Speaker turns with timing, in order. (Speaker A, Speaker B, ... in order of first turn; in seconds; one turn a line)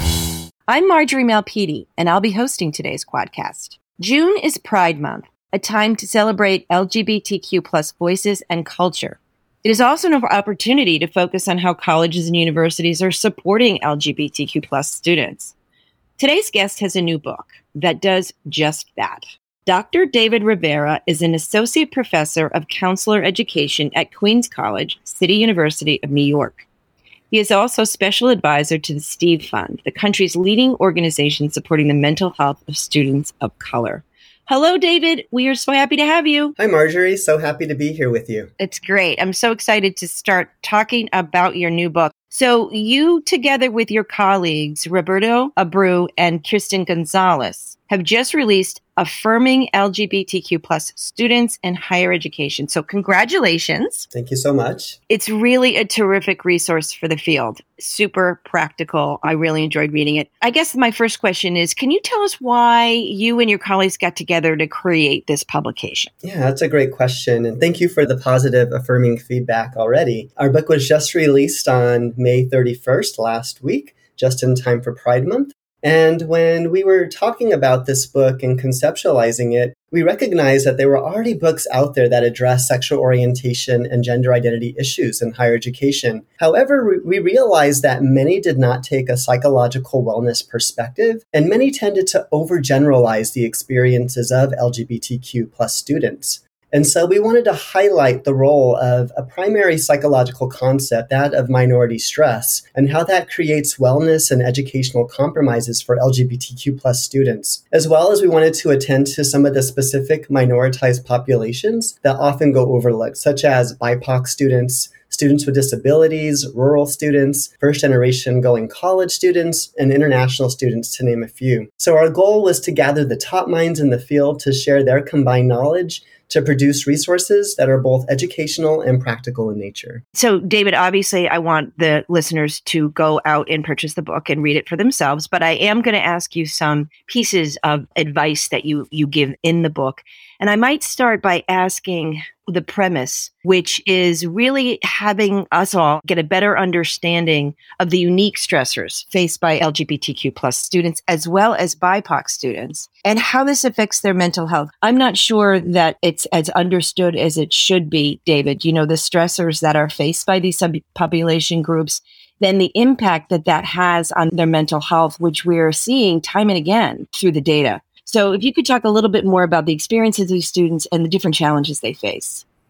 Speaker A: 0.7-15.6
Speaker A: 16.2-26.7
Speaker A: 27.3-36.5
Speaker B: 36.6-38.5
Speaker A: 38.6-54.1
Speaker B: 54.1-55.0
Speaker A: 55.1-66.1
Speaker B: 66.2-130.0
Speaker A: 130.2-172.4